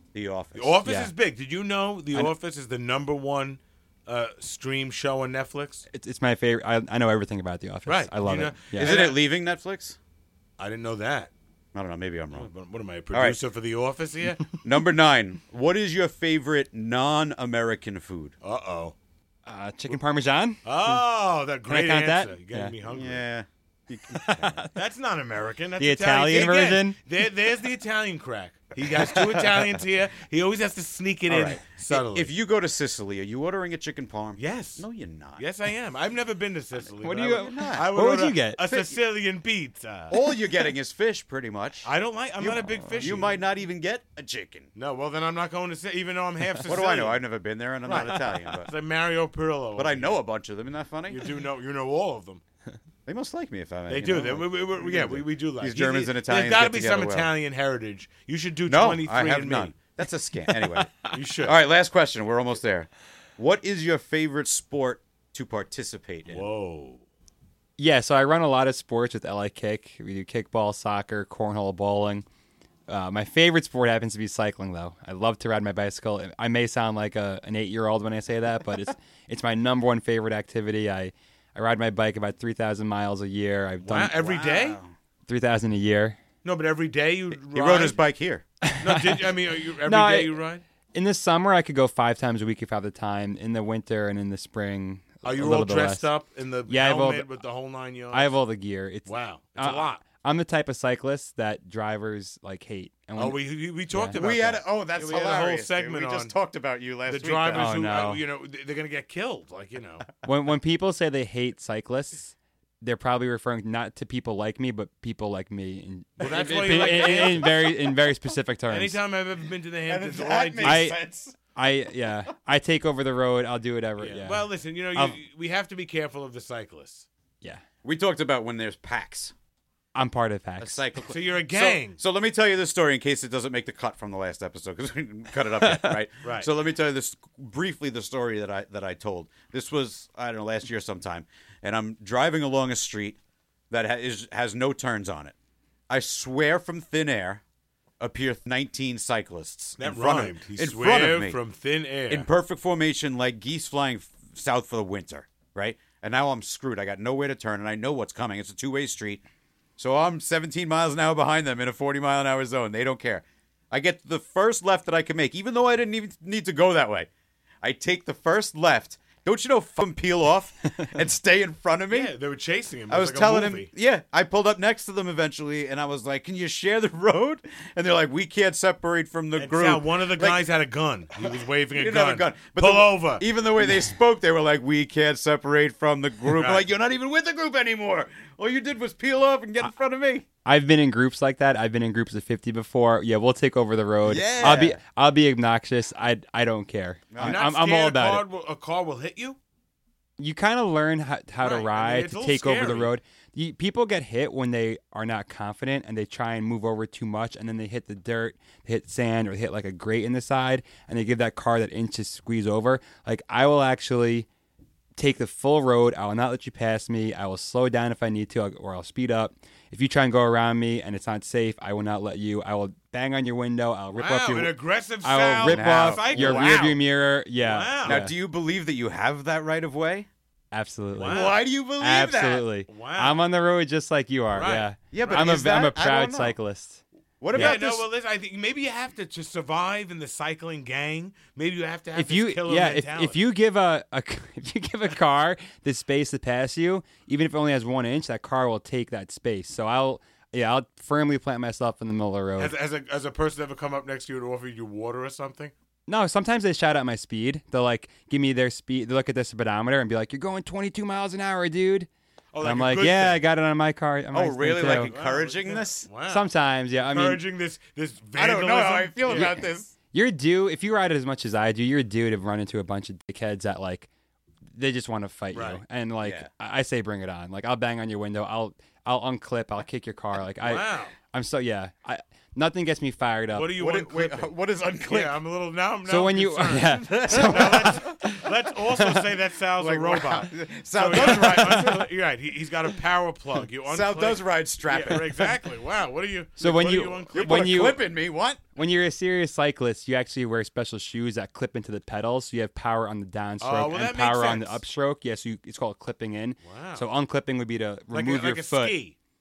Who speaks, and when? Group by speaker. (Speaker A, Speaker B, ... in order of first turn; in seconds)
Speaker A: 0.1-0.8, 8.8-10.0, 11.7-12.5, 14.6-18.4, 22.9-24.6, 29.0-29.8, 31.3-35.4, 37.3-37.9, 38.7-38.9, 40.1-41.9, 42.4-44.7, 46.6-48.7, 49.8-51.2, 53.1-57.3, 58.7-66.5, 84.2-84.9, 87.5-88.4, 104.2-107.8, 116.3-117.4, 119.9-121.4, 127.8-129.3, 130.6-143.2, 143.7-145.3, 145.9-147.4, 148.0-151.4, 152.1-159.2, 159.8-167.1, 167.6-172.1, 172.9-180.4, 181.2-190.2, 194.0-194.8, 197.1-197.4, 225.4-226.8, 227.8-230.1, 231.1-232.5, 234.9-236.4, 237.2-237.9, 264.1-265.9, 268.2-269.7, 276.0-276.3, 283.6-285.2, 286.9-288.0, 289.6-291.9, 293.7-295.2, 297.1-298.5
Speaker B: 0.6-5.9, 7.9-9.2, 10.6-11.3, 12.3-14.5, 18.4-18.9, 20.6-23.3, 24.8-32.3, 34.4-34.9, 35.4-40.3, 41.9-43.4, 44.8-47.2, 47.9-50.2, 51.1-52.4, 53.9-59.8, 61.1-61.6, 66.3-67.0, 83.8-84.8, 86.4-88.0, 88.8-90.6, 95.2-98.3, 99.1-100.0, 103.2-106.3, 107.1-110.1, 116.2-117.7, 118.7-120.9, 124.0-127.1, 131.1-132.0, 136.2-136.5, 149.8-152.3, 171.9-173.7, 179.4-183.3, 186.3-186.7, 197.2-199.4, 201.4-202.9, 223.9-226.7, 227.4-228.0, 230.9-231.4, 232.7-233.2, 234.3-234.7, 237.3-243.2, 252.4-255.5, 262.3-263.2, 264.6-269.4, 275.3-275.6, 280.4-280.9, 283.3-284.3, 284.9-297.7, 303.4-304.6, 306.4-306.9, 307.9-308.9
Speaker C: 0.8-1.1, 5.9-8.9, 19.5-21.0, 21.7-22.7, 24.1-24.8, 25.8-27.0, 37.0-38.6, 42.7-43.1, 60.6-61.1, 67.8-72.2, 72.9-84.2, 85.3-86.2, 88.6-90.4, 90.9-96.1, 96.7-97.4, 98.1-104.2, 107.5-108.2, 110.2-119.0, 120.6-121.0, 121.5-125.2, 129.9-130.8, 135.7-135.9, 190.4-198.3, 200.2-214.3, 215.0-228.1, 230.5-236.8, 241.9-252.5, 255.9-261.9, 262.4-264.9, 266.1-267.2, 269.1-273.9, 274.5-283.6, 285.9-288.2, 291.2-291.7, 296.4-297.8, 298.6-308.8